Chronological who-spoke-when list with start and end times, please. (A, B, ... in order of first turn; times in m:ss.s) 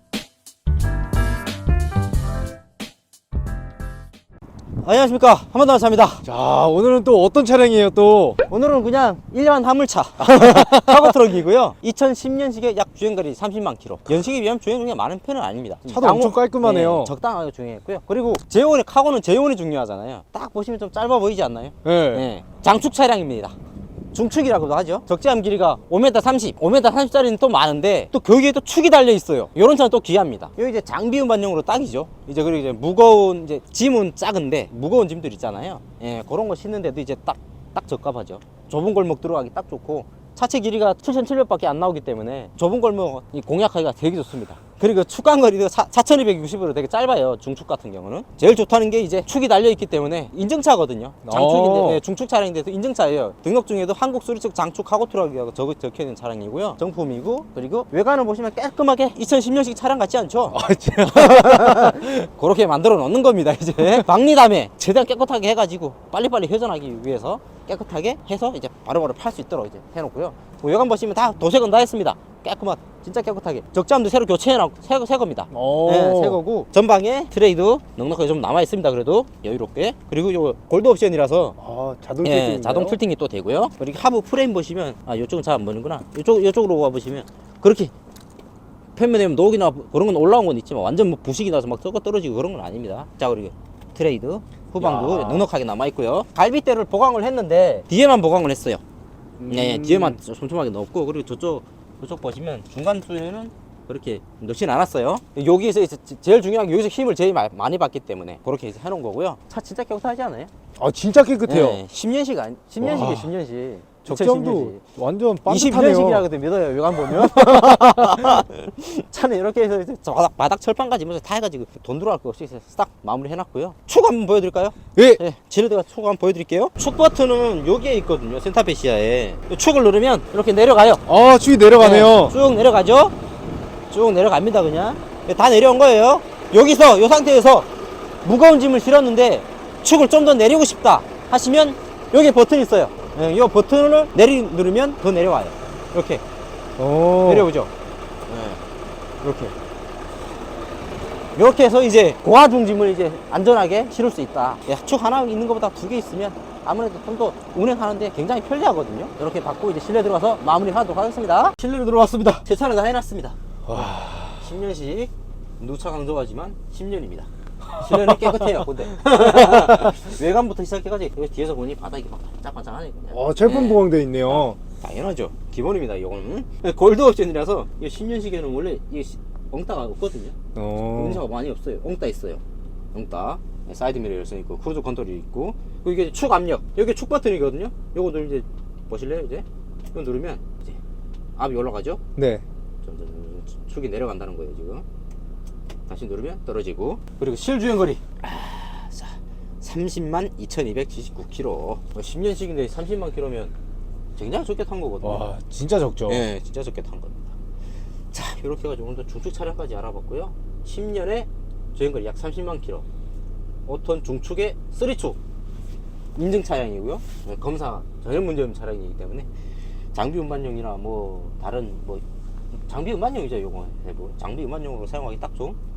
0:04.8-0:06.2 A
0:06.2-0:08.4 B
0:08.5-0:23.5 A
0:10.2-0:11.2 B
0:15.8-0:17.1 B
0:21.8-0:22.3 B
0:24.1-1:21.6 A
0:51.2-0:52.0 B
1:00.5-1:02.1 B
1:15.5-1:16.4 B
1:21.6-1:23.0 B
1:22.2-1:27.9 A
1:28.9-1:38.8 A
1:34.8-1:35.5 B
1:39.4-1:40.2 B
1:39.5-1:50.5 A
1:50.8-1:51.8 B
1:51.5-1:54.8 A
1:52.8-1:53.3 B
1:54.0-1:56.2 B
1:55.4-2:11.0 A
1:57.0-1:58.4 B
2:05.0-2:05.2 B
2:11.1-2:12.3 B
2:11.8-2:13.1 A
2:13.9-2:17.7 A
2:18.2-2:26.2 A
2:26.8-2:27.5 B
2:27.2-2:27.7 A
2:28.3-2:28.6 A
2:29.2-2:29.5 A
2:31.4-3:00.3 A
2:43.6-2:44.5 B
2:47.7-2:49.9 B
2:53.1-2:54.6 B
3:00.6-3:01.2 B
3:00.9-3:02.4 A
3:02.9-3:10.8 A
3:11.4-3:12.0 A
3:12.2-3:12.4 B
3:12.8-3:14.8 A
3:15.9-3:23.5 A
3:24.2-3:25.3 A
3:25.0-3:26.2 B
3:26.1-3:27.4 A
3:28.1-3:32.8 A
3:33.6-3:35.2 A
3:36.2-3:39.3 A
3:39.9-3:42.0 A
3:42.7-3:45.6 A